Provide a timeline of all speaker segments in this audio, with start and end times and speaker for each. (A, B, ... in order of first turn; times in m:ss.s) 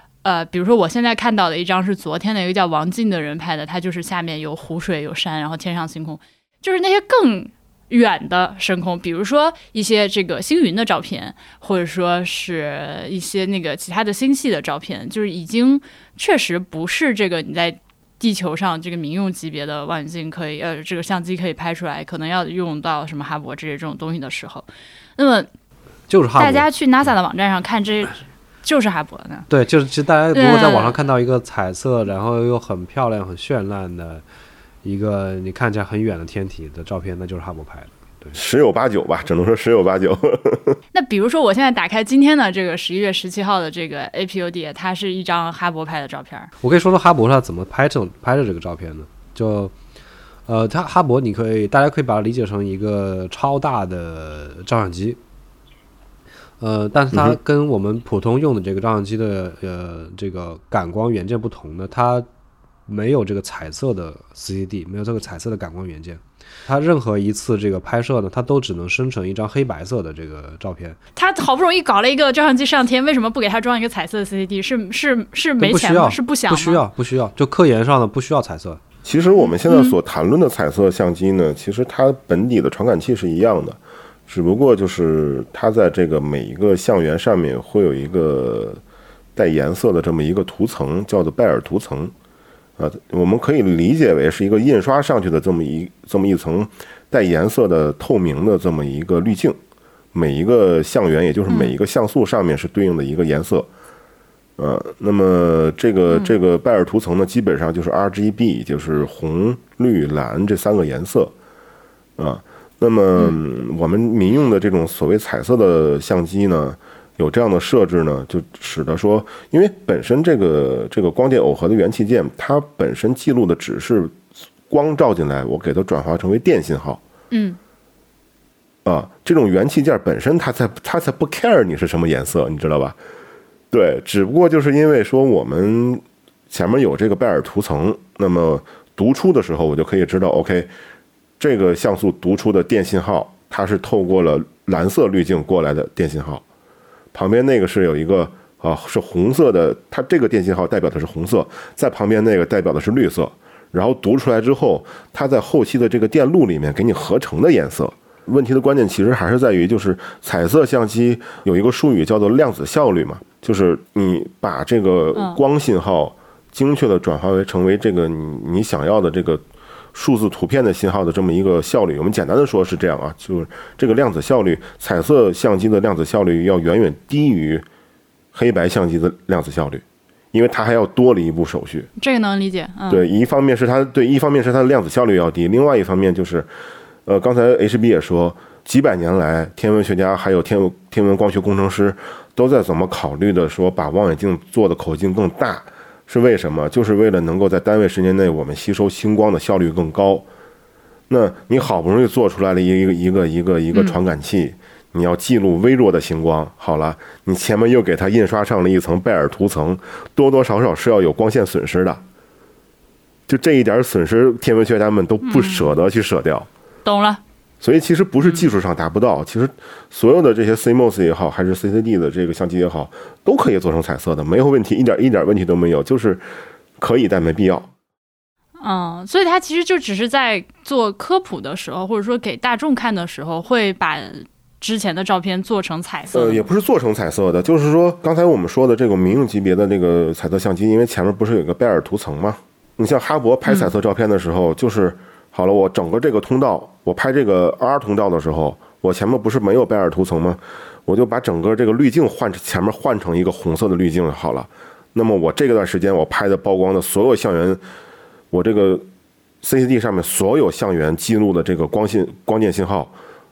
0:00.2-0:24.6 A
0:25.2-0:25.5 A
0:26.1-0:26.6 B
0:26.4-0:29.5 A
0:29.5-0:34.2 B
0:30.3-0:31.0 A
0:34.8-0:38.4 B
0:38.3-0:40.8 C
0:40.9-0:46.5 A
0:46.6-0:49.7 B
0:50.5-0:55.2 B
0:56.6-1:02.3 B
0:57.1-0:57.4 C
1:02.9-1:11.0 B
1:11.2-1:16.8 A
1:15.6-1:18.8 B
1:19.0-1:28.8 C
1:19.4-1:20.0 A
1:29.3-1:32.1 C
1:32.8-1:39.6 C
1:40.1-1:43.7 C
1:41.5-1:41.8 A
1:44.6-1:51.3 C
1:46.1-1:46.4 A
1:52.2-2:07.0 C
2:07.3-2:07.6 A
2:08.8-2:13.0 C
2:13.7-2:20.7 C
2:21.4-2:26.4 C
2:27.1-2:57.6 C
2:58.3-3:01.9 C
3:02.0-3:03.0 A
3:02.9-3:06.5 C
3:07.0-3:20.3 C
3:21.1-3:32.0 C
3:23.7-3:24.0 A
3:33.3-3:36.5 C
3:35.2-3:35.7 A
3:36.8-3:37.2 A
3:37.6-3:46.2 C
3:38.2-3:38.5 A
3:46.8-3:47.7 C
3:48.6-3:56.4 A
3:56.1-4:17.6 C
4:03.4-4:03.7 A
4:18.3-4:18.9 C
4:19.4-4:22.9 C